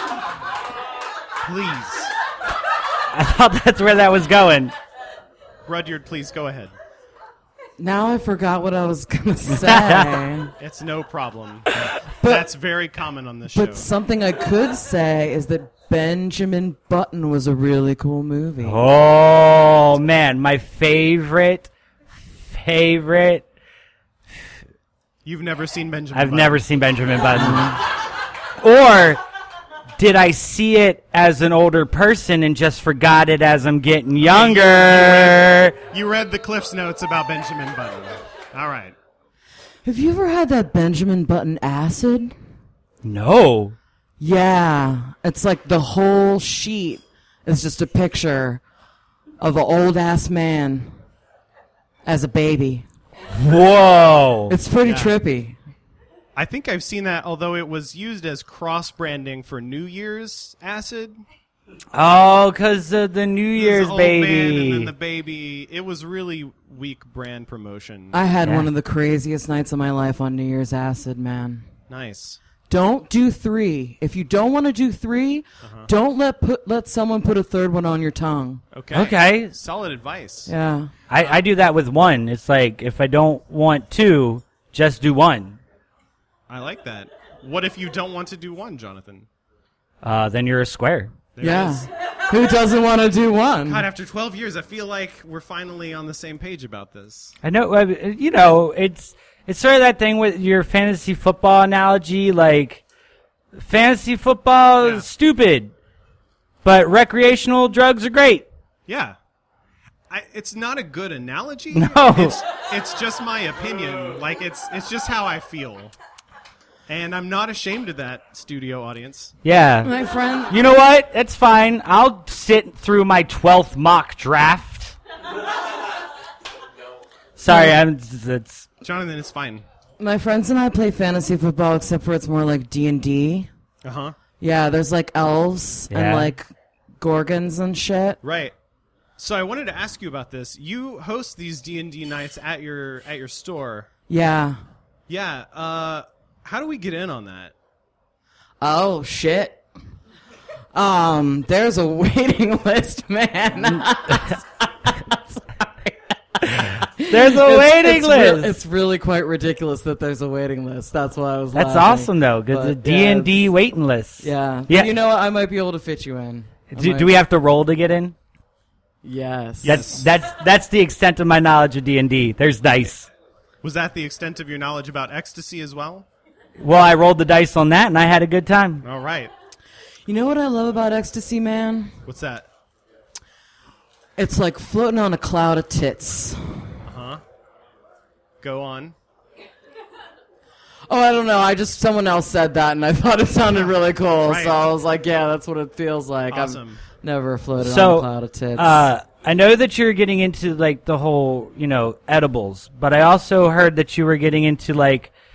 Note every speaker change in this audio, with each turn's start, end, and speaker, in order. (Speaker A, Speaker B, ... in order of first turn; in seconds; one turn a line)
Speaker A: 1.4-2.1
Speaker B: 3.1-4.7
Speaker A: 5.7-6.7
Speaker C: 7.8-10.5
Speaker B: 9.5-10.2
Speaker A: 10.6-11.7
Speaker C: 12.2-12.4
Speaker A: 12.2-13.9
Speaker C: 13.5-18.8
Speaker B: 18.6-21.7
Speaker B: 22.2-23.4
Speaker A: 25.2-26.6
Speaker B: 26.1-27.8
Speaker C: 27.3-27.8
Speaker B: 28.6-29.2
Speaker B: 30.0-35.7
Speaker A: 34.2-39.0
Speaker C: 39.8-42.3
Speaker B: 43.0-43.8
Speaker C: 44.2-48.6
Speaker C: 49.4-50.9
Speaker C: 52.0-52.9
Speaker B: 53.3-54.5
Speaker C: 54.5-55.6
Speaker A: 54.8-55.1
Speaker A: 56.3-61.2
Speaker B: 61.9-64.9
Speaker A: 63.5-68.2
Speaker C: 68.1-71.7
Speaker A: 71.9-72.4
Speaker C: 72.7-78.6
Speaker A: 75.6-75.9
Speaker A: 78.7-80.5
Speaker B: 78.9-79.5
Speaker C: 80.5-80.9
Speaker B: 81.1-85.6
Speaker A: 86.5-89.3
Speaker B: 90.0-91.1
Speaker A: 91.3-91.9
Speaker C: 91.4-93.8
Speaker A: 93.7-97.3
Speaker B: 97.4-102.8
Speaker B: 103.5-105.7
Speaker A: 104.8-105.1
Speaker B: 106.6-108.5
Speaker A: 108.9-109.2
Speaker A: 110.1-115.9
Speaker B: 111.7-112.4
Speaker A: 116.9-119.3
Speaker B: 119.4-119.9
Speaker C: 119.8-120.6
Speaker B: 120.5-125.0
Speaker B: 127.4-128.7
Speaker C: 127.5-127.8
Speaker A: 128.8-129.6
Speaker C: 130.0-133.5
Speaker A: 133.8-134.2
Speaker C: 134.4-136.5
Speaker B: 135.9-136.3
Speaker C: 137.0-138.2
Speaker A: 138.2-138.5
Speaker A: 139.2-143.9
Speaker C: 144.1-144.6
Speaker A: 145.1-147.5
Speaker C: 148.6-149.6
Speaker C: 150.7-163.4
Speaker B: 153.6-154.4
Speaker B: 156.4-158.6
Speaker B: 161.5-164.9
Speaker C: 164.2-167.1
Speaker B: 166.7-168.1
Speaker C: 169.0-169.9
Speaker B: 169.6-173.1
Speaker A: 169.6-170.1
Speaker A: 173.6-176.1
Speaker B: 176.6-178.8
Speaker A: 178.8-179.3
Speaker C: 180.1-181.9
Speaker A: 182.1-182.5
Speaker C: 184.2-186.8
Speaker A: 186.8-187.2
Speaker A: 188.4-188.9
Speaker C: 190.9-198.9
Speaker A: 193.5-194.7
Speaker A: 196.3-196.8
Speaker B: 197.6-205.1